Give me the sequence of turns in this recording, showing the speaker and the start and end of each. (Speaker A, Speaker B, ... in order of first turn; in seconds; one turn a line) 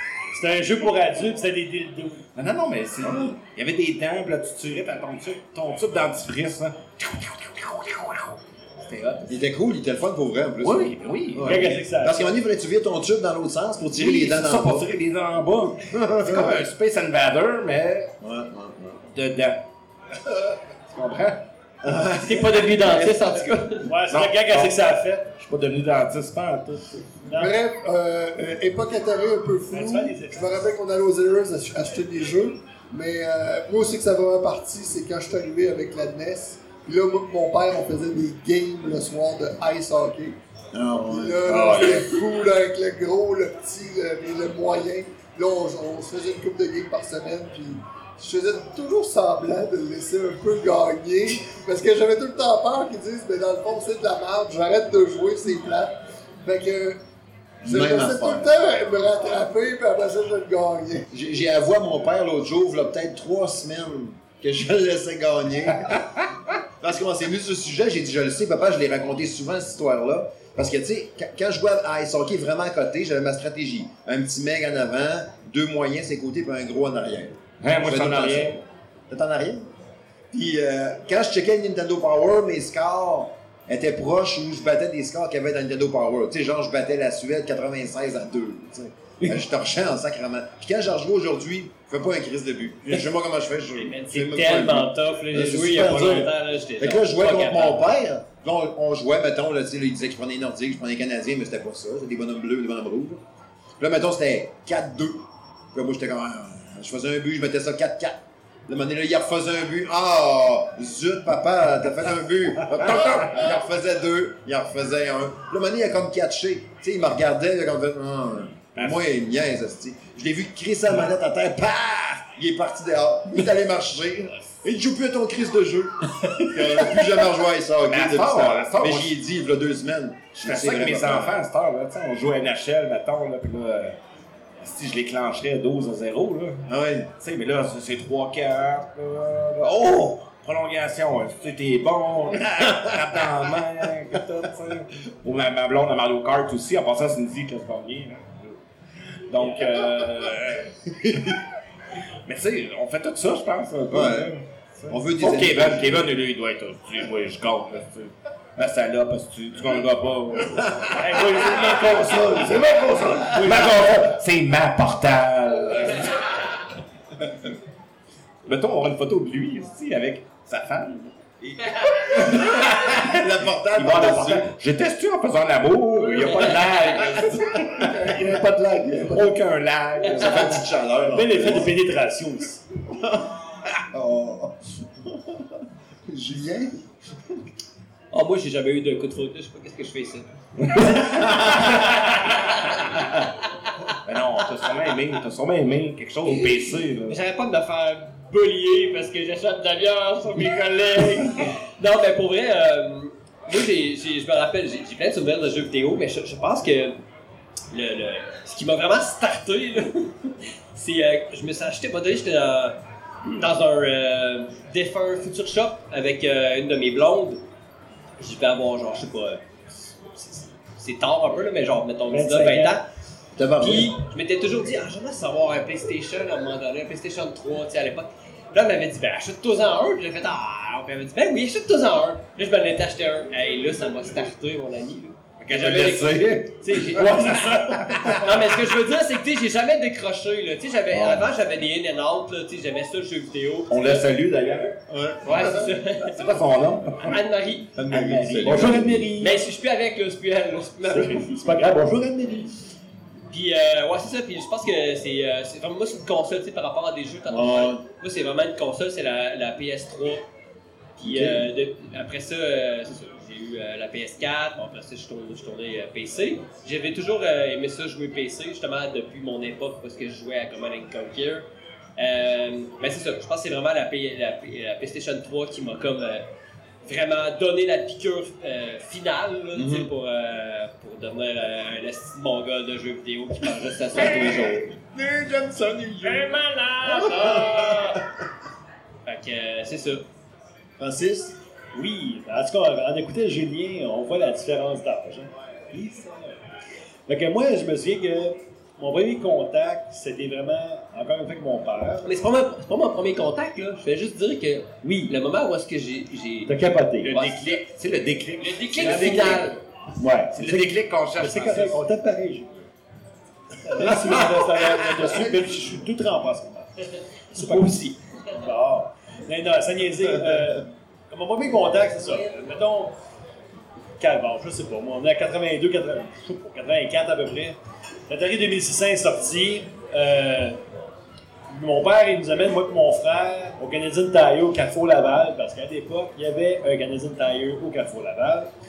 Speaker A: 0.3-2.2
Speaker B: 2.4-9.4
Speaker C: 3.0-3.3
Speaker C: 9.3-14.9
Speaker B: 10.6-11.8
Speaker A: 11.4-12.3
Speaker B: 13.9-18.1
Speaker C: 15.9-16.7
Speaker C: 18.2-19.1
Speaker B: 19.1-19.6
Speaker B: 20.9-21.4
Speaker C: 21.8-23.1
Speaker D: 22.2-23.9
Speaker A: 23.8-25.3
Speaker B: 24.1-24.8
Speaker B: 25.4-27.1
Speaker A: 27.3-27.5
Speaker E: 27.3-40.4
Speaker A: 29.7-30.6
Speaker C: 40.7-42.1
Speaker E: 41.0-57.0
Speaker E: 57.6-61.1
Speaker C: 57.6-58.5
Speaker C: 61.1-79.7
Speaker B: 77.6-78.6
Speaker C: 80.3-103.2
Speaker D: 93.8-97.9
Speaker C: 103.8-131.4
Speaker B: 112.7-113.5
Speaker B: 118.8-119.0
Speaker B: 127.9-129.2
Speaker B: 130.4-134.0
Speaker B: 134.6-136.7
Speaker C: 136.7-137.1
Speaker B: 137.2-148.6
Speaker C: 142.7-142.9
Speaker B: 149.3-150.9
Speaker C: 151.0-151.3
Speaker B: 152.3-166.4
Speaker C: 153.9-154.3
Speaker C: 154.9-156.1
Speaker A: 160.9-162.3
Speaker E: 161.6-162.7
Speaker A: 163.3-163.7
Speaker B: 168.5-171.2
Speaker C: 172.0-174.5
Speaker B: 172.1-173.1
Speaker B: 173.7-178.4
Speaker D: 176.3-177.2
Speaker E: 177.5-179.3
Speaker B: 179.0-180.7
Speaker C: 180.0-181.7
Speaker A: 181.1-182.6
Speaker C: 182.9-185.4
Speaker C: 186.1-186.8
Speaker D: 188.1-190.3
Speaker B: 190.6-191.7
Speaker D: 191.3-192.9
Speaker B: 194.0-197.2
Speaker D: 196.4-207.0
Speaker D: 207.7-217.4
Speaker D: 218.2-219.4
Speaker D: 220.0-222.9
Speaker A: 222.1-222.8
Speaker C: 223.4-223.9
Speaker D: 223.6-237.4
Speaker B: 235.4-238.2
Speaker A: 236.7-238.2
Speaker D: 238.0-244.1
Speaker C: 240.9-241.3
Speaker B: 243.7-244.8
Speaker C: 244.9-245.8
Speaker D: 245.2-246.2
Speaker B: 246.0-247.2
Speaker D: 247.0-247.7
Speaker C: 247.8-249.1
Speaker B: 247.9-249.4
Speaker A: 248.4-248.9
Speaker D: 249.2-251.6
Speaker A: 250.9-252.5
Speaker D: 253.3-260.3
Speaker C: 257.3-257.8
Speaker D: 261.0-276.3
Speaker C: 261.0-261.5
Speaker D: 276.9-284.7
Speaker C: 279.5-279.9
Speaker C: 284.4-288.0
Speaker A: 286.0-288.0
Speaker D: 289.1-290.0
Speaker C: 290.8-291.4
Speaker A: 291.7-296.4
Speaker A: 297.1-302.1
Speaker D: 302.0-307.6
Speaker A: 304.8-305.1
Speaker A: 306.5-307.1
Speaker B: 307.0-309.5
Speaker D: 308.4-309.6
Speaker A: 308.8-309.3
Speaker A: 310.0-312.5
Speaker B: 310.3-311.9
Speaker A: 313.6-316.7
Speaker C: 314.0-314.4
Speaker A: 317.3-322.9
Speaker D: 317.4-317.9
Speaker A: 324.0-327.6
Speaker A: 328.1-330.6
Speaker A: 331.5-338.5